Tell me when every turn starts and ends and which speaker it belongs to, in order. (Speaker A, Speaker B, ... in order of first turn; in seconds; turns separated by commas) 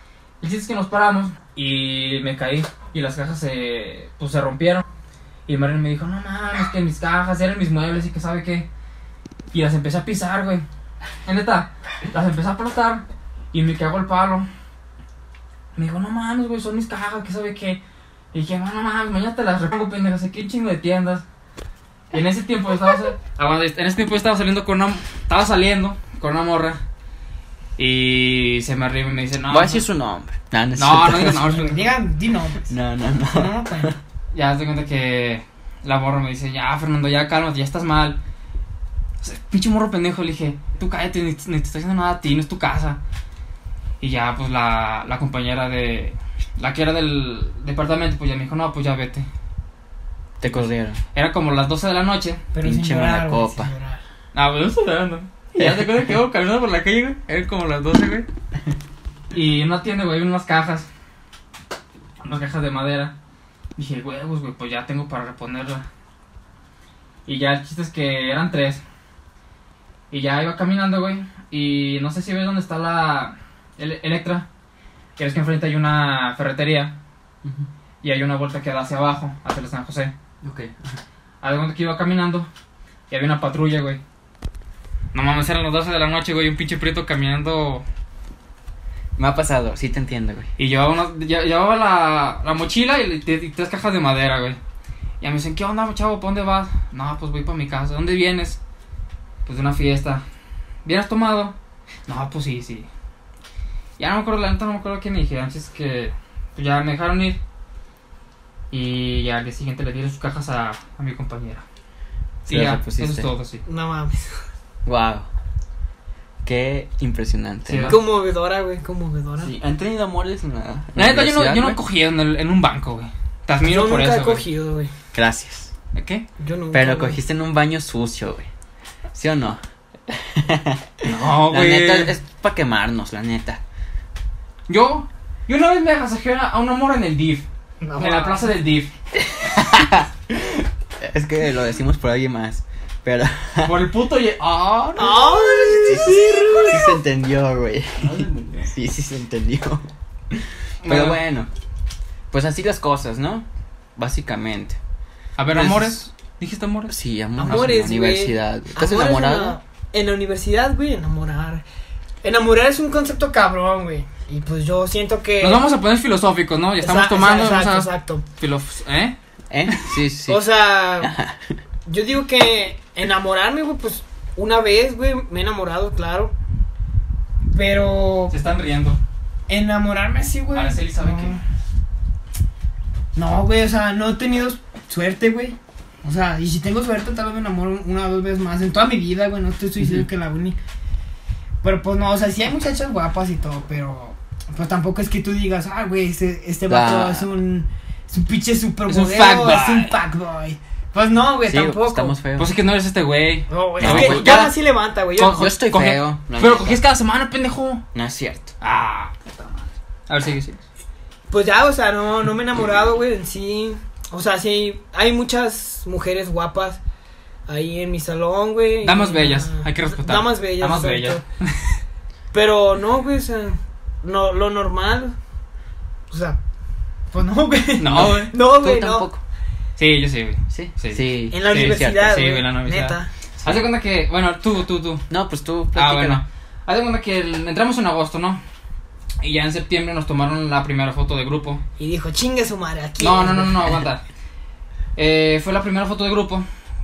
Speaker A: 0.4-4.8, Speaker A: 5.5-8.7, Speaker A: 9.5-10.6, Speaker A: 11.2-14.5, Speaker A: 15.8-17.8, Speaker A: 18.3-21.2, Speaker A: 22.1-26.8, Speaker A: 27.8-29.8, Speaker B: 29.5-31.5, Speaker A: 30.8-31.9, Speaker C: 31.4-32.7, Speaker B: 32.7-34.0, Speaker C: 33.3-33.9, Speaker A: 34.3-38.2, Speaker A: 39.2-43.0, Speaker A: 44.0-49.3, Speaker B: 50.4-51.0, Speaker A: 50.4-52.4, Speaker C: 52.5-54.0, Speaker B: 52.6-53.7, Speaker A: 54.3-58.3, Speaker B: 55.5-56.1, Speaker A: 59.3-60.9, Speaker A: 62.2-63.1, Speaker A: 63.8-65.8, Speaker A: 67.2-68.8, Speaker A: 70.1-74.5, Speaker A: 75.2-76.9, Speaker B: 77.4-77.7, Speaker A: 78.0-80.1, Speaker B: 80.4-81.0, Speaker A: 81.4-82.5, Speaker A: 83.1-84.0, Speaker A: 85.1-87.8, Speaker B: 89.2-90.5, Speaker A: 90.6-94.6, Speaker A: 95.2-98.6, Speaker A: 99.5-100.2, Speaker A: 100.8-101.5, Speaker A: 102.1-102.9, Speaker A: 104.0-107.4, Speaker A: 108.7-111.6, Speaker B: 112.5-113.3, Speaker A: 112.5-113.6, Speaker C: 113.6-114.3, Speaker B: 114.8-115.3, Speaker B: 116.4-118.0, Speaker A: 117.7-118.0, Speaker C: 117.8-119.5, Speaker B: 119.4-121.8, Speaker A: 121.0-124.4, Speaker C: 123.6-124.9, Speaker B: 125.1-125.7, Speaker A: 125.9-126.2, Speaker C: 126.4-127.2, Speaker B: 126.7-128.5, Speaker B: 129.1-133.6, Speaker A: 131.0-132.1, Speaker A: 134.7-138.9, Speaker C: 137.8-138.5, Speaker B: 139.2-143.9, Speaker A: 143.6-146.8, Speaker C: 144.9-146.9, Speaker B: 145.8-151.5, Speaker A: 148.0-148.7, Speaker A: 150.8-151.2, Speaker B: 152.3-153.4, Speaker B: 154.0-154.8, Speaker A: 155.4-156.9, Speaker B: 155.5-156.0, Speaker B: 156.9-159.6, Speaker C: 157.4-161.6, Speaker C: 162.2-165.6, Speaker A: 165.4-169.2, Speaker C: 166.8-168.2, Speaker B: 169.5-170.4, Speaker A: 169.7-169.9, Speaker C: 170.3-171.2, Speaker B: 171.0-171.6, Speaker C: 171.8-176.3, Speaker C: 177.5-178.3, Speaker A: 178.3-179.0, Speaker C: 179.5-181.4, Speaker A: 180.5-181.4, Speaker C: 183.1-190.6, Speaker B: 189.8-190.1, Speaker C: 191.6-202.2, Speaker B: 196.7-197.3, Speaker A: 198.9-199.9, Speaker B: 201.4-202.5, Speaker A: 202.4-204.6, Speaker C: 203.5-205.5, Speaker B: 203.8-204.5, Speaker A: 205.2-207.8, Speaker B: 205.2-206.8, Speaker B: 207.9-208.5, Speaker A: 208.6-210.6, Speaker C: 211.3-216.8, Speaker C: 217.5-221.2, Speaker A: 218.8-221.6, Speaker C: 222.3-225.2, Speaker C: 226.1-226.4, Speaker C: 227.1-229.1, Speaker A: 227.8-228.3, Speaker B: 227.9-229.2, Speaker A: 229.8-235.1, Speaker B: 230.5-232.1, Speaker C: 231.3-233.1, Speaker B: 233.4-233.7, Speaker B: 235.1-236.2, Speaker A: 235.7-238.4, Speaker A: 239.2-241.6, Speaker C: 241.8-243.8, Speaker A: 243.0-244.0, Speaker A: 244.9-246.4